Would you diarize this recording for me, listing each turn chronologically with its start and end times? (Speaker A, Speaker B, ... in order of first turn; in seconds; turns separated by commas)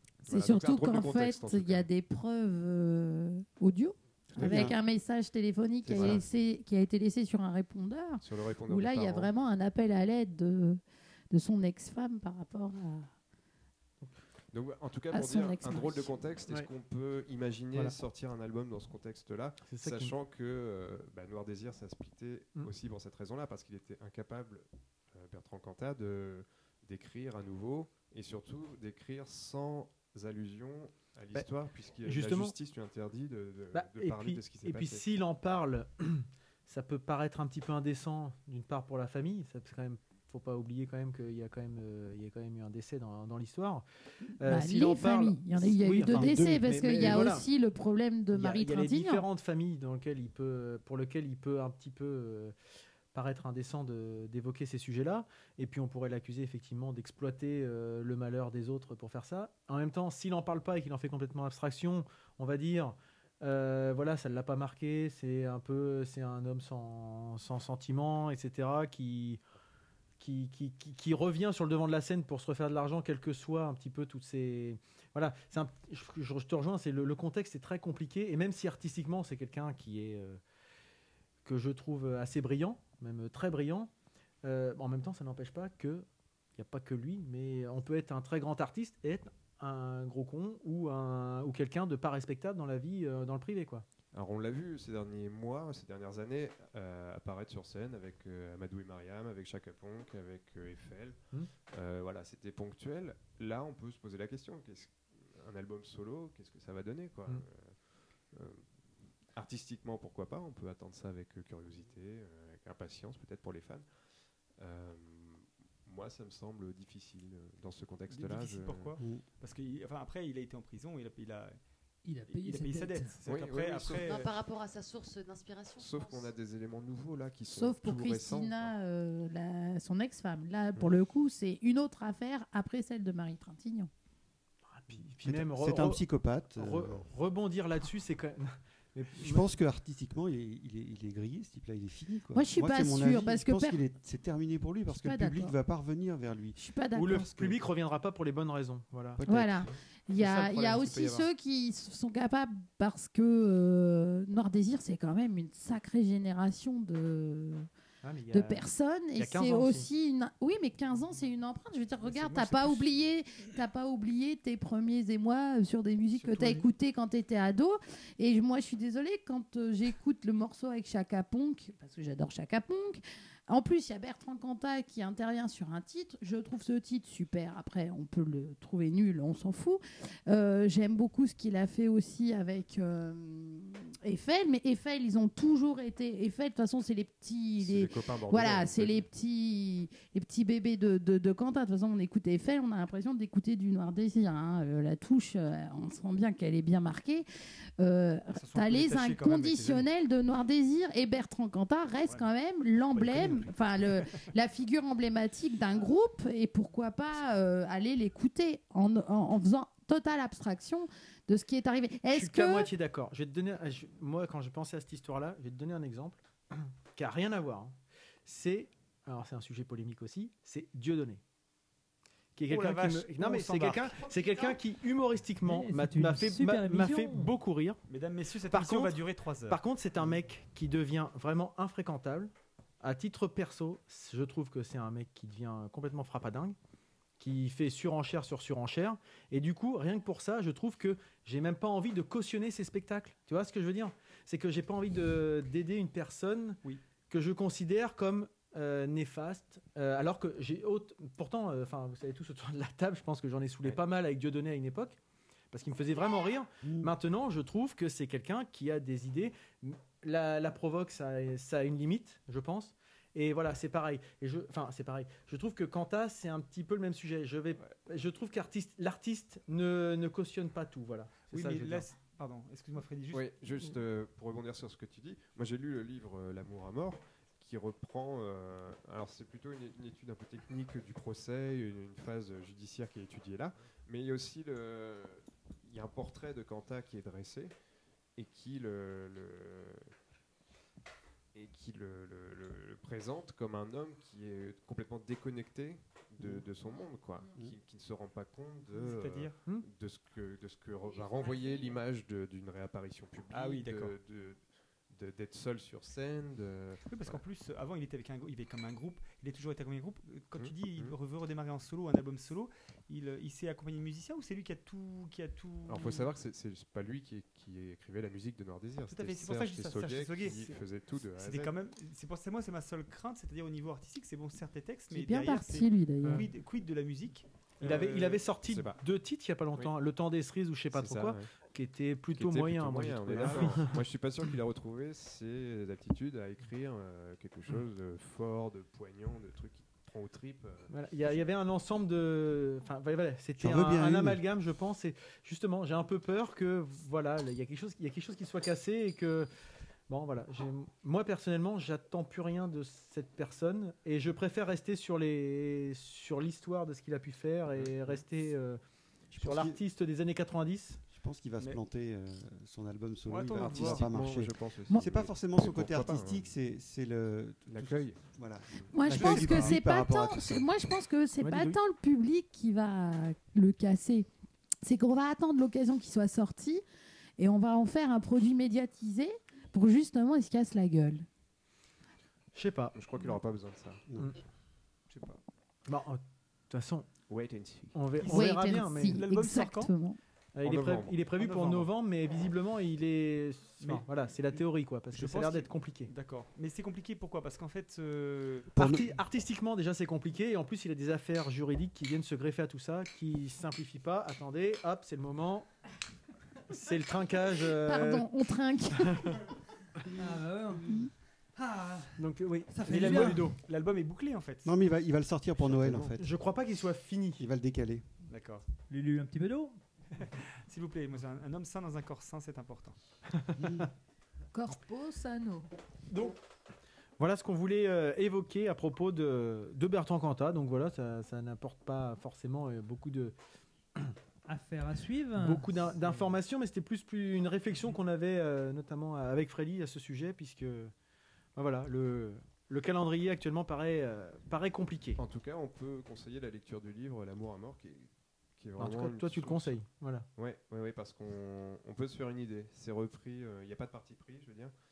Speaker A: 0.2-13.1, Speaker B: 0.3-1.9, Speaker C: 4.4-4.8, Speaker B: 4.4-4.7, Speaker C: 5.8-6.2, Speaker B: 5.9-6.2, Speaker B: 8.2-9.3, Speaker B: 14.5-35.0, Speaker A: 15.1-16.1, Speaker D: 19.6-20.1, Speaker D: 32.0-32.5, Speaker D: 33.7-43.9, Speaker D: 44.4-47.5, Speaker A: 44.5-49.3, Speaker D: 48.3-52.5, Speaker D: 53.1-69.4, Speaker D: 70.2-80.4, Speaker D: 81.5-83.9, Speaker D: 84.4-86.1, Speaker D: 86.6-93.8, Speaker B: 94.1-101.2, Speaker B: 101.7-107.8, Speaker B: 108.3-108.7, Speaker B: 109.3-113.9, Speaker B: 114.6-119.0, Speaker E: 118.1-121.6, Speaker C: 119.0-119.2, Speaker F: 122.0-123.2, Speaker E: 122.3-124.3, Speaker B: 123.2-124.2, Speaker G: 124.0-126.3, Speaker B: 125.8-128.7, Speaker A: 127.5-133.9, Speaker D: 134.7-136.0, Speaker C: 135.1-137.1, Speaker D: 136.6-139.5, Speaker C: 139.2-146.6, Speaker A: 142.3-143.8, Speaker A: 145.0-145.6, Speaker A: 146.6-147.6, Speaker D: 146.9-149.2, Speaker C: 149.2-149.7, Speaker A: 149.3-157.7, Speaker D: 150.2-151.3, Speaker D: 158.0-159.9, Speaker A: 158.3-197.3, Speaker E: 162.0-162.9, Speaker D: 166.2-166.7, Speaker B: 187.6-189.1, Speaker A: 197.8-212.7, Speaker E: 198.3-199.8, Speaker E: 202.9-204.1, Speaker D: 212.1-221.2, Speaker D: 222.4-227.8, Speaker E: 222.4-223.9, Speaker G: 224.0-224.5, Speaker F: 225.4-227.3, Speaker E: 227.9-229.6, Speaker D: 228.5-236.6, Speaker D: 237.2-246.6, Speaker D: 247.1-255.0, Speaker D: 255.5-271.9, Speaker E: 271.3-273.3, Speaker B: 273.1-287.5, Speaker B: 288.2-289.9, Speaker B: 291.3-307.2, Speaker E: 298.7-299.4, Speaker G: 301.0-301.7, Speaker E: 303.3-304.0, Speaker E: 306.9-316.1, Speaker B: 310.3-311.0, Speaker B: 315.7-321.5, Speaker E: 318.9-320.6, Speaker E: 321.2-328.4, Speaker A: 324.9-326.3, Speaker D: 327.6-333.8, Speaker B: 328.5-328.8, Speaker B: 330.7-331.3, Speaker B: 332.1-340.7, Speaker E: 333.3-333.6, Speaker D: 340.7-349.3, Speaker C: 343.4-344.2, Speaker D: 349.9-358.6, Speaker B: 357.5-358.0, Speaker C: 359.1-359.6, Speaker D: 359.2-360.8, Speaker C: 360.9-370.5, Speaker E: 363.1-364.0, Speaker B: 363.3-366.3, Speaker B: 367.5-368.0, Speaker B: 368.6-369.5, Speaker A: 368.7-374.1, Speaker D: 371.2-371.6, Speaker A: 374.6-376.6, Speaker A: 377.2-381.1, Speaker D: 382.3-382.8, Speaker B: 382.7-383.9, Speaker E: 384.9-385.2, Speaker D: 385.7-386.9, Speaker B: 387.1-387.8, Speaker D: 387.7-389.0, Speaker E: 388.0-389.7, Speaker A: 388.1-390.0, Speaker D: 390.4-395.9, Speaker B: 390.4-391.1, Speaker E: 391.1-391.7, Speaker E: 393.6-393.9, Speaker E: 394.9-398.5, Speaker C: 398.6-398.9, Speaker D: 398.6-405.5, Speaker D: 406.5-408.1, Speaker A: 407.6-409.2, Speaker D: 408.8-409.1, Speaker F: 409.9-410.8, Speaker F: 411.4-413.3, Speaker D: 412.0-413.4, Speaker E: 412.7-414.5, Speaker C: 414.4-416.1, Speaker B: 415.4-416.0, Speaker D: 416.0-417.2, Speaker C: 417.2-417.9, Speaker E: 418.1-418.4, Speaker F: 418.7-419.6, Speaker E: 420.0-422.8, Speaker A: 424.3-425.5, Speaker D: 425.9-426.2, Speaker D: 427.0-433.2, Speaker F: 434.3-435.7, Speaker D: 435.2-440.7, Speaker D: 441.4-445.0, Speaker B: 445.0-449.6, Speaker D: 448.6-450.1, Speaker B: 450.2-454.5